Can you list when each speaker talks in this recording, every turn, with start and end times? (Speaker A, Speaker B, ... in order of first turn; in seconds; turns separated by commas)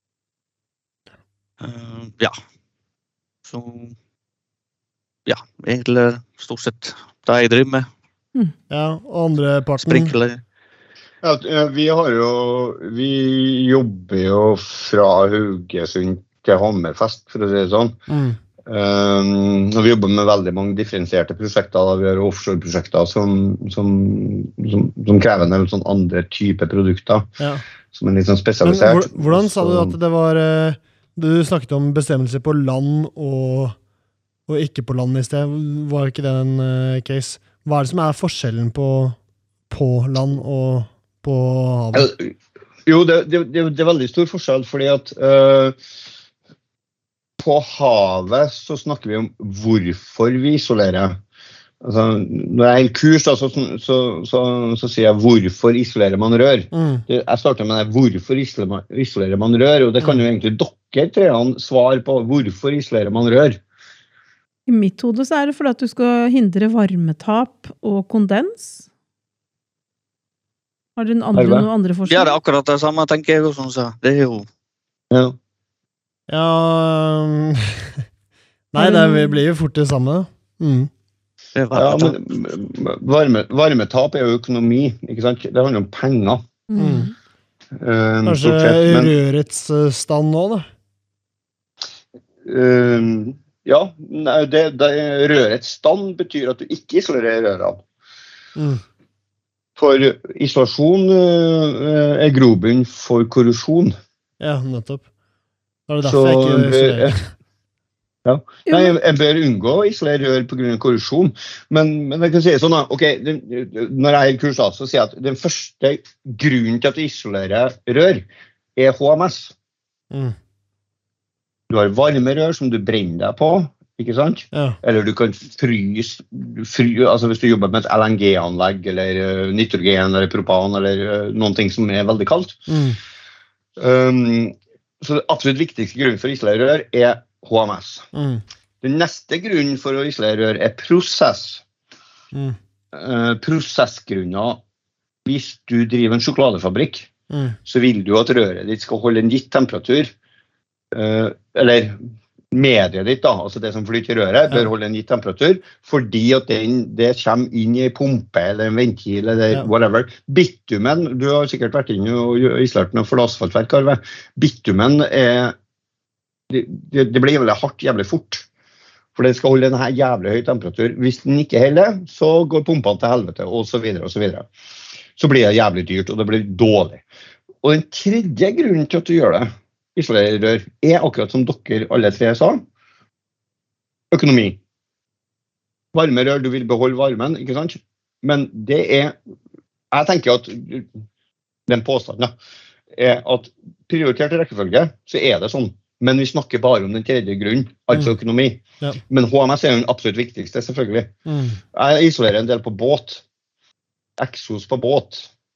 Speaker A: 1.6-2.4, Speaker A: 3.5-4.0, Speaker A: 5.3-7.9, Speaker B: 8.7-10.1, Speaker A: 9.8-10.4, Speaker C: 11.2-18.0, Speaker B: 18.1-18.4, Speaker C: 18.7-27.3, Speaker B: 27.4-27.6, Speaker C: 27.9-30.0, Speaker B: 28.6-33.8, Speaker B: 34.5-39.2, Speaker B: 39.7-42.1, Speaker C: 41.9-42.3, Speaker C: 42.9-45.8, Speaker C: 47.4-51.2, Speaker C: 51.8-63.6, Speaker B: 56.7-57.0, Speaker D: 64.7-68.8, Speaker D: 71.0-72.4, Speaker C: 71.4-71.7, Speaker A: 72.1-74.5, Speaker C: 75.1-75.4, Speaker B: 76.3-78.0, Speaker B: 78.7-80.9, Speaker D: 78.8-79.4, Speaker A: 81.6-82.2, Speaker C: 81.7-86.4, Speaker D: 86.7-87.1, Speaker B: 86.8-87.1, Speaker C: 87.8-89.2, Speaker B: 88.3-90.7, Speaker C: 92.5-97.8, Speaker B: 98.6-98.8, Speaker C: 99.8-103.9, Speaker B: 104.4-105.1, Speaker B: 105.9-107.3, Speaker C: 106.0-107.1, Speaker C: 108.2-119.5, Speaker D: 108.7-109.0, Speaker B: 120.1-120.4, Speaker C: 121.7-132.6, Speaker B: 124.5-124.8, Speaker B: 132.7-133.0, Speaker C: 133.8-138.1, Speaker B: 138.1-138.4, Speaker C: 138.8-141.6, Speaker B: 142.3-142.6, Speaker C: 142.9-144.6, Speaker C: 145.2-147.1, Speaker B: 147.3-147.6, Speaker C: 147.7-150.1, Speaker C: 150.9-152.0, Speaker C: 152.5-165.6, Speaker C: 166.5-168.4, Speaker C: 169.2-174.5, Speaker C: 175.2-177.0, Speaker C: 177.6-182.7, Speaker C: 184.1-184.6, Speaker C: 185.9-189.2, Speaker C: 189.9-190.9, Speaker C: 191.7-192.3, Speaker C: 192.9-201.1, Speaker B: 201.3-201.6, Speaker C: 201.7-203.2, Speaker C: 204.2-205.3